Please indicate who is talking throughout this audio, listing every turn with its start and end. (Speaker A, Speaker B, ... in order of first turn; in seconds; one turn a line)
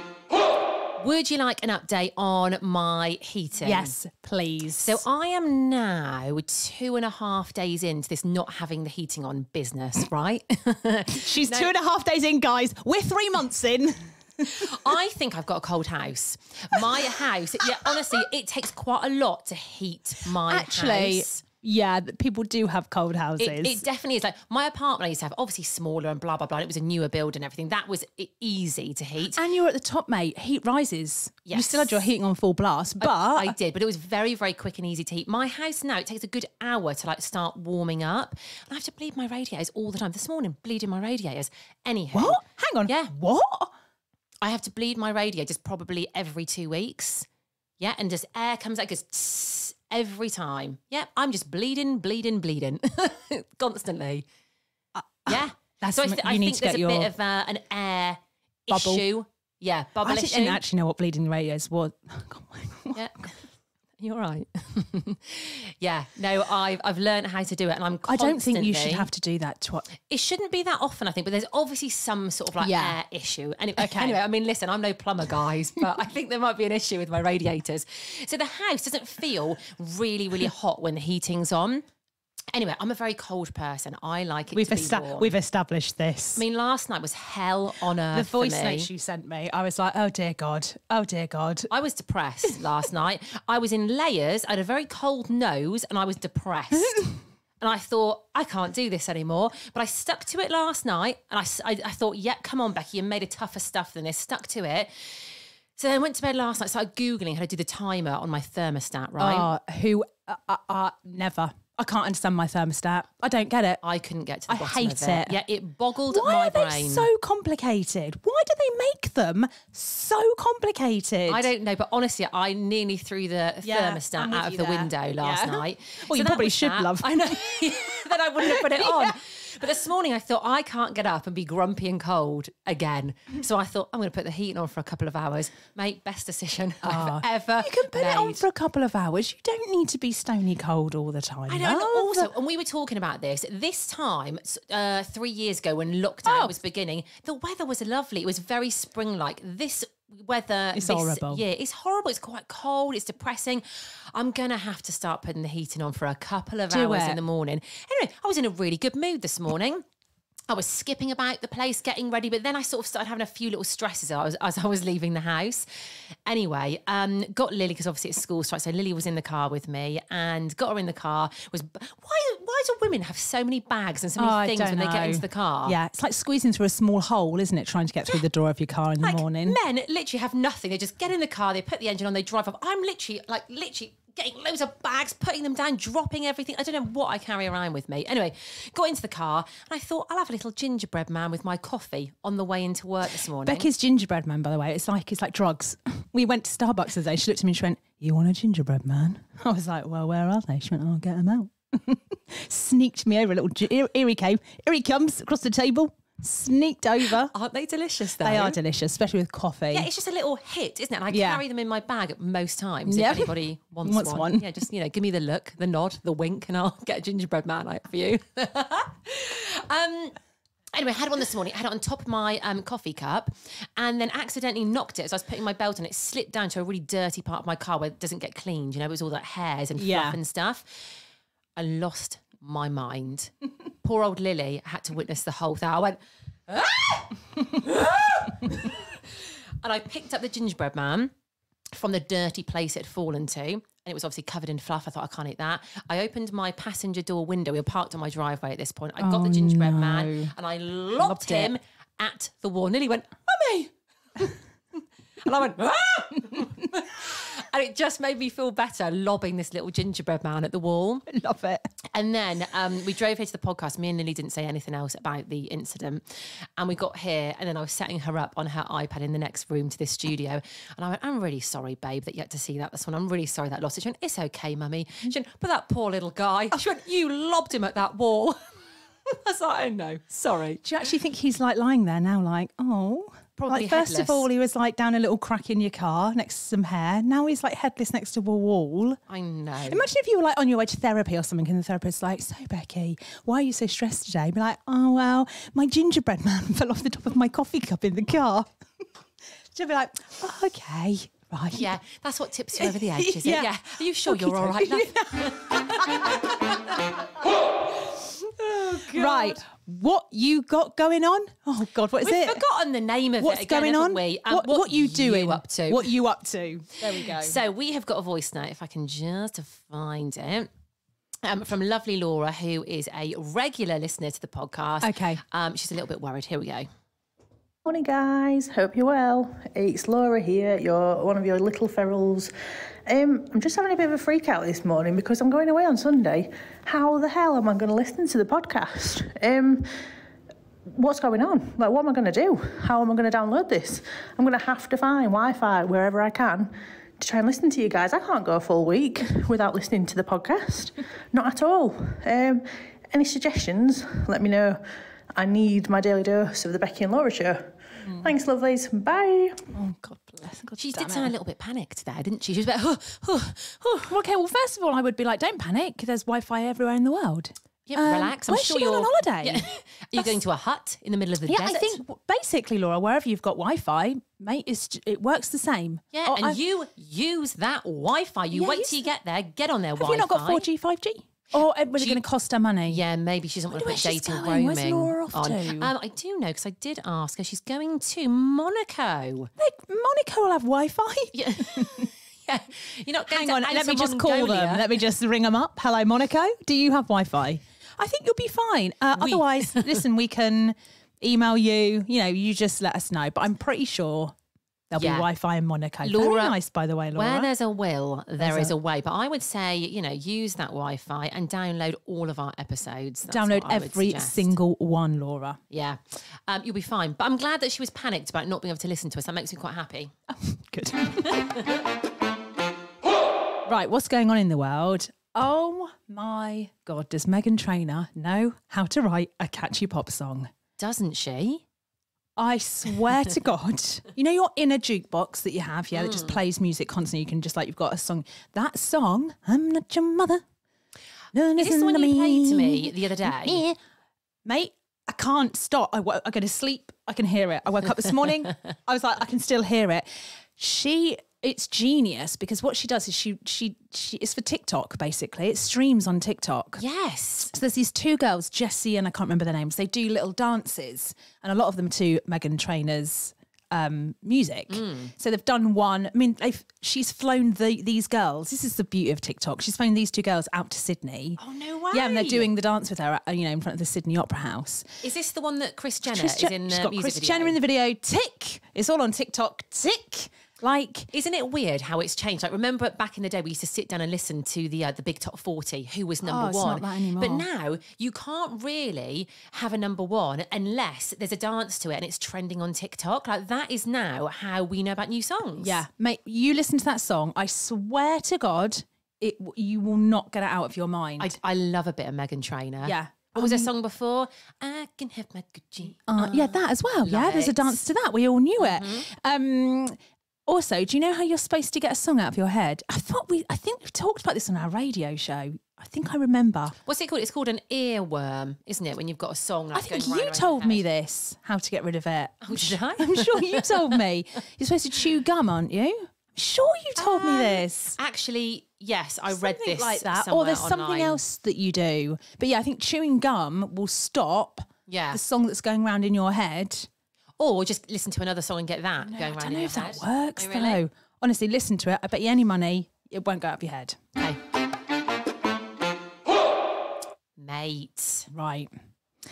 Speaker A: 1.0-3.9
Speaker B: 3.6-5.0
Speaker A: 4.8-11.7
Speaker B: 11.1-14.7
Speaker A: 14.5-21.4
Speaker B: 20.5-23.8
Speaker A: 23.4-29.4
Speaker B: 29.3-33.6
Speaker A: 31.4-32.1
Speaker A: 33.0-43.1
Speaker B: 42.1-43.7
Speaker A: 44.4-47.3
Speaker A: 47.8-54.2
Speaker B: 54.9-57.1
Speaker A: 55.3-60.6
Speaker B: 58.7-59.1
Speaker B: 60.0-63.3
Speaker A: 62.9-63.5
Speaker A: 64.0-69.1
Speaker B: 68.1-69.9
Speaker A: 70.1-81.8
Speaker B: 72.6-73.0
Speaker B: 73.8-74.2
Speaker A: 82.5-85.3
Speaker B: 84.5-86.4
Speaker A: 86.3-88.9
Speaker B: 88.1-91.7
Speaker A: 91.7-109.5
Speaker B: 109.2-113.8
Speaker A: 113.8-117.1
Speaker B: 114.5-115.3
Speaker B: 116.1-121.5
Speaker A: 121.3-138.4
Speaker B: 123.6-127.6
Speaker B: 128.4-129.2
Speaker B: 136.8-142.3
Speaker A: 141.5-159.8
Speaker B: 146.2-146.6
Speaker B: 150.7-151.4
Speaker B: 156.7-157.2
Speaker A: 160.5-175.8
Speaker B: 174.2-179.6
Speaker A: 179.0-193.7
Speaker B: 193.4-207.3
Speaker A: 207.0-208.6
Speaker B: 208.2-209.9
Speaker A: 209.7-220.2
Speaker B: 211.1-211.4
Speaker B: 212.8-214.6
Speaker A: 220.7-231.0
Speaker B: 229.8-230.2
Speaker A: 231.6-233.3
Speaker A: 233.8-241.1
Speaker A: 241.7-253.2
Speaker B: 249.0-250.3
Speaker B: 250.9-251.5
Speaker B: 253.3-254.3
Speaker A: 255.2-261.1
Speaker B: 261.1-261.7
Speaker A: 261.9-278.4
Speaker A: 279.1-280.6
Speaker B: 280.6-289.0
Speaker A: 283.4-284.3
Speaker A: 289.1-289.9
Speaker B: 289.6-298.6
Speaker B: 299.5-301.7
Speaker A: 301.5-307.0
Speaker B: 302.6-306.3
Speaker A: 308.2-309.4
Speaker B: 308.8-312.4
Speaker A: 312.0-316.0
Speaker B: 313.2-317.4
Speaker A: 316.9-320.5
Speaker A: 321.2-326.7
Speaker B: 324.8-325.2
Speaker C: 327.7-332.3
Speaker C: 332.9-338.7
Speaker B: 337.0-339.6
Speaker C: 339.3-339.6
Speaker B: 340.7-343.5
Speaker C: 341.7-346.5
Speaker B: 344.2-346.1
Speaker B: 347.0-347.3
Speaker C: 347.2-354.6
Speaker C: 355.1-357.4
Speaker B: 357.8-358.3
Speaker C: 358.2-359.4
Speaker B: 359.4-361.1
Speaker A: 360.6-363.9
Speaker B: 363.9-370.2
Speaker A: 367.7-371.8
Speaker B: 371.3-376.4
Speaker A: 375.9-380.4
Speaker B: 378.3-378.8
Speaker B: 379.8-382.8
Speaker A: 381.8-382.0
Speaker A: 382.7-389.3
Speaker B: 383.5-385.7
Speaker B: 389.4-391.9
Speaker A: 391.1-394.8
Speaker B: 393.1-404.1
Speaker A: 398.9-399.8
Speaker B: 404.7-407.3
Speaker A: 404.7-405.1
Speaker A: 405.8-406.4
Speaker A: 406.9-414.4
Speaker B: 408.2-408.5
Speaker B: 413.1-415.4
Speaker A: 415.5-419.9
Speaker B: 420.1-421.2
Speaker A: 421.1-421.4
Speaker B: 423.4-430.3
Speaker A: 430.6-431.4
Speaker B: 432.2-440.2
Speaker A: 435.7-436.2
Speaker B: 441.1-443.6
Speaker A: 441.4-443.4
Speaker B: 444.2-456.6
Speaker A: 456.6-457.3
Speaker B: 457.3-471.2
Speaker A: 464.5-464.9
Speaker A: 471.2-472.3
Speaker B: 471.7-474.7
Speaker A: 474.8-477.4
Speaker B: 475.9-480.9
Speaker A: 480.9-495.6
Speaker B: 486.0-487.2
Speaker B: 495.4-501.1
Speaker A: 501.0-507.7
Speaker B: 502.6-503.5
Speaker B: 505.9-516.5
Speaker A: 508.4-508.9
Speaker A: 516.6-520.6
Speaker B: 519.5-527.8
Speaker A: 522.2-523.8
Speaker A: 526.8-531.0
Speaker B: 529.1-536.7
Speaker A: 534.7-535.0
Speaker A: 537.2-540.6
Speaker B: 538.9-543.8
Speaker A: 547.2-548.1
Speaker B: 548.1-548.5